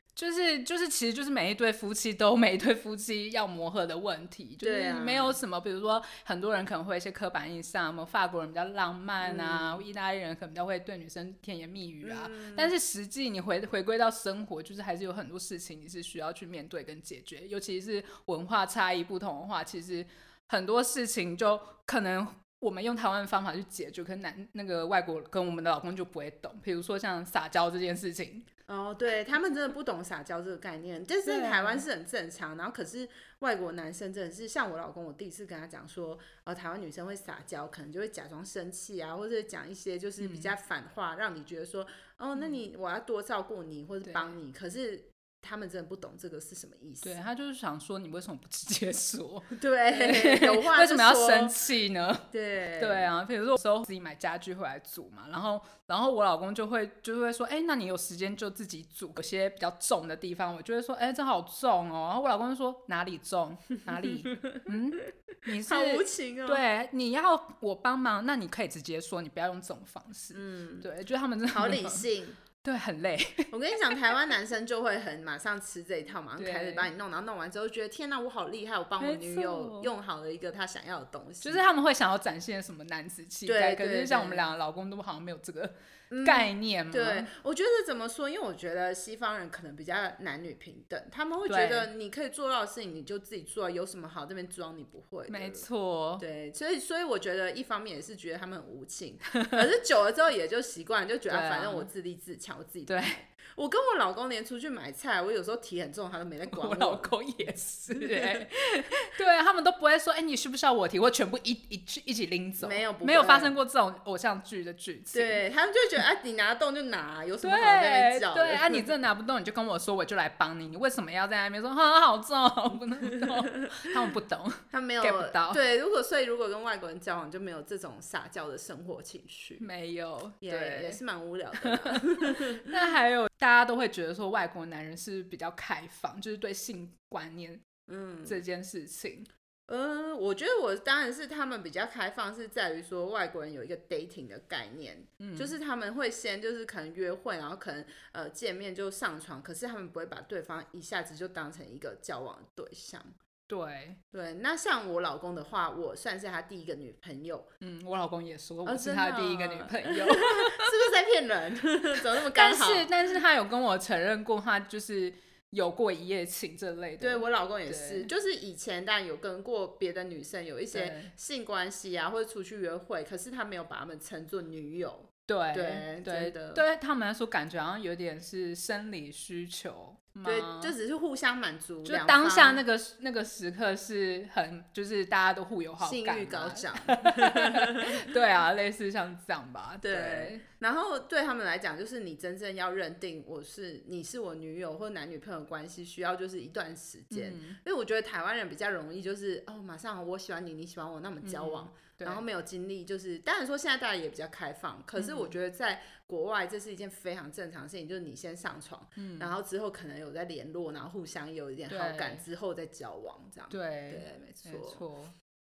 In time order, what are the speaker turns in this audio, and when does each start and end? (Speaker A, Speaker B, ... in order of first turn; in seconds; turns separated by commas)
Speaker A: 0.2-28.5, Speaker B: 4.6-5.4, Speaker B: 9.2-9.8, Speaker B: 12.0-12.8, Speaker B: 28.7-47.2, Speaker A: 31.2-31.9, Speaker A: 40.2-40.5, Speaker A: 44.0-44.4, Speaker A: 47.0-52.3, Speaker B: 49.5-51.5, Speaker B: 52.3-53.1, Speaker A: 52.8-72.0, Speaker B: 64.0-65.1, Speaker B: 65.6-66.6, Speaker B: 70.3-70.9, Speaker B: 71.5-72.4, Speaker A: 72.6-73.5, Speaker B: 73.5-81.7, Speaker A: 76.4-76.9, Speaker A: 79.0-79.9, Speaker A: 81.4-87.3, Speaker B: 83.5-84.5, Speaker B: 86.1-95.7, Speaker A: 91.5-91.9, Speaker A: 95.3-96.2, Speaker B: 96.2-107.2, Speaker A: 101.3-101.9, Speaker A: 102.9-103.2, Speaker A: 106.5-115.4, Speaker B: 107.9-108.5, Speaker B: 112.6-113.5, Speaker B: 115.1-118.9, Speaker A: 117.4-125.6, Speaker B: 124.7-129.7, Speaker A: 129.6-131.0, Speaker B: 130.4-132.7, Speaker A: 131.6-137.6, Speaker B: 137.9-138.4, Speaker A: 138.3-139.3, Speaker B: 139.7-153.1, Speaker A: 145.2-145.5, Speaker A: 153.5-154.0, Speaker B: 154.1-157.5, Speaker A: 157.6-160.7, Speaker B: 158.7-162.9, Speaker A: 162.3-168.1, Speaker B: 167.0-176.7, Speaker A: 170.7-171.1, Speaker A: 175.3-180.7, Speaker B: 180.2-182.6, Speaker A: 181.8-190.4, Speaker B: 185.8-188.0, Speaker B: 189.8-214.8, Speaker A: 197.1-197.6, Speaker A: 201.2-202.2, Speaker A: 205.0-205.3, Speaker A: 209.0-209.3, Speaker A: 211.7-212.2, Speaker A: 213.5-215.1